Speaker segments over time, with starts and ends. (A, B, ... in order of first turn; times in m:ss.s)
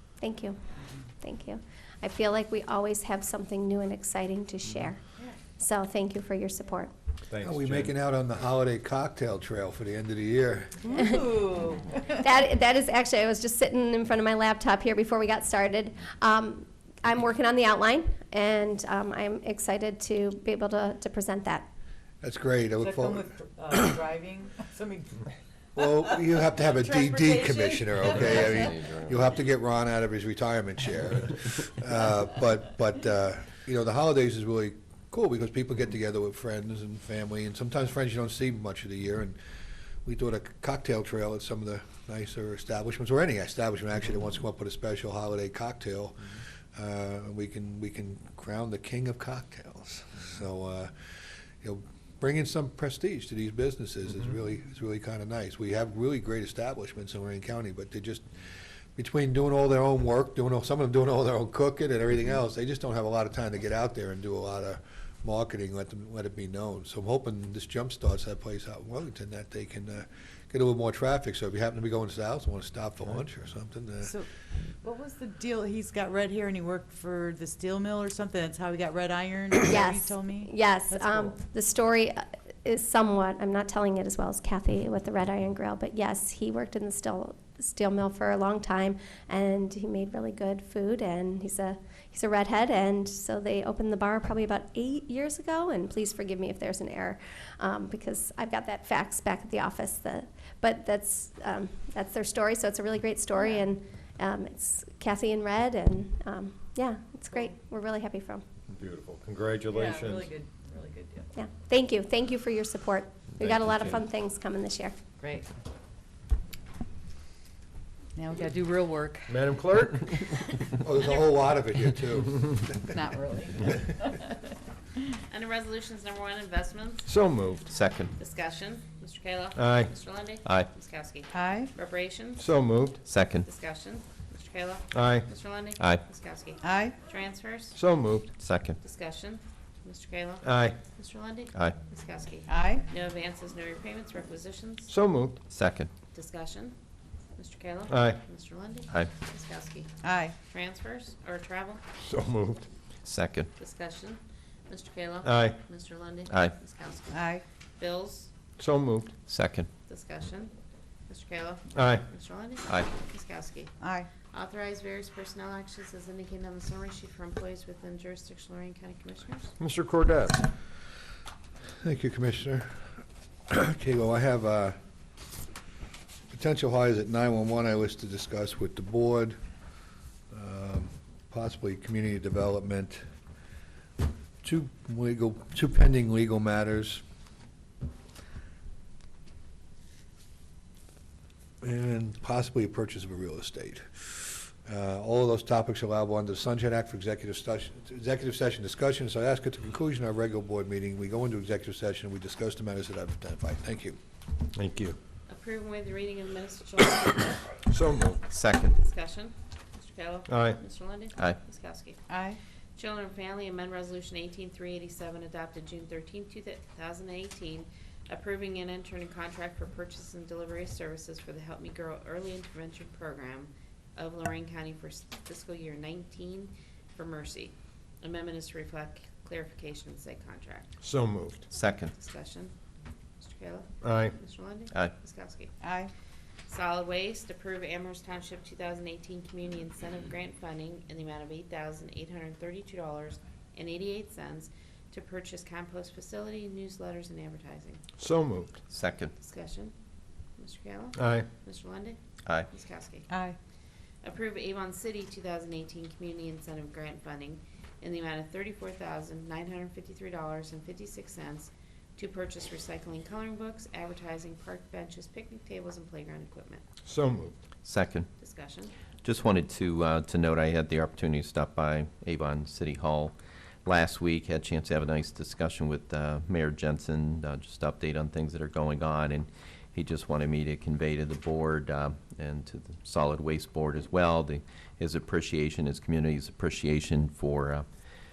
0:00.2-0:00.6 A
0:01.2-0:05.0 A
0:05.6-0:06.9 A
0:07.3-0:07.9 B
0:07.4-0:11.0 C
0:10.9-0:12.2 D
0:11.0-0:11.2 A
0:12.1-0:21.7 A
0:22.2-0:23.3 C
0:22.8-0:25.2 D
0:25.8-0:39.4 C
0:26.7-0:28.7 D
0:28.3-0:29.2 E
0:40.1-0:50.9 C
0:51.6-0:58.3 C
0:59.0-1:14.2 C
1:14.0-1:14.3 D
1:14.8-1:21.3 D
1:19.6-1:48.4 A
1:48.7-1:50.3 B
1:49.7-1:51.3 D
1:51.4-1:55.0 A
1:55.2-1:55.5 D
1:58.2-1:59.5 D
1:59.3-2:00.3 B
2:00.8-2:02.8 C
2:02.9-2:04.4 D
2:05.3-2:07.1 F
2:07.1-2:07.6 B
2:07.7-2:08.1 E
2:08.2-2:12.5 F
2:09.6-2:09.9 B
2:10.4-2:10.7 E
2:11.3-2:11.7 D
2:12.4-2:13.0 B
2:13.0-2:13.5 E
2:13.4-2:17.8 F
2:14.9-2:15.3 B
2:16.6-2:17.0 D
2:17.7-2:18.3 B
2:18.4-2:18.8 E
2:18.8-2:24.9 F
2:20.4-2:20.8 B
2:22.5-2:22.8 D
2:24.9-2:25.4 B
2:25.5-2:25.9 E
2:26.1-2:26.8 F
2:27.4-2:31.8 F
2:27.9-2:28.2 B
2:30.0-2:30.4 D
2:32.0-2:32.7 B
2:33.0-2:33.5 E
2:33.6-2:38.3 F
2:35.2-2:35.6 B
2:36.3-2:36.5 E
2:37.1-2:37.4 D
2:38.6-2:39.1 B
2:39.3-2:39.7 E
2:39.9-2:40.5 F
2:41.1-2:49.5 F
2:41.8-2:42.0 B
2:43.8-2:44.1 D
2:49.6-2:50.4 B
2:51.8-2:52.8 C
2:53.5-2:54.8 C
2:56.3-2:59.4 C
3:00.3-3:03.0 C
3:04.4-3:07.0 C
3:11.6-3:24.0 C
3:24.6-3:25.0 B
3:25.3-3:27.6 F
3:27.7-3:28.2 B
3:28.3-3:28.8 E
3:28.7-3:32.1 F
3:30.3-3:30.6 B
3:32.1-3:32.4 D
3:32.8-3:50.8 F
3:50.8-3:51.4 B
3:51.5-3:52.6 F
3:51.5-3:51.9 E
3:53.2-3:55.6 F
3:53.8-3:54.2 B
3:55.6-3:55.9 D
3:56.5-4:07.8 F
4:08.0-4:08.6 B
4:08.7-4:09.1 E
4:09.2-4:09.7 F
4:10.4-4:13.1 F
4:11.0-4:11.3 B
4:13.1-4:13.4 D
4:14.0-4:26.6 F
4:26.8-4:27.4 B
4:27.6-4:28.1 E
4:28.2-4:28.7 F
4:29.0-4:47.7 E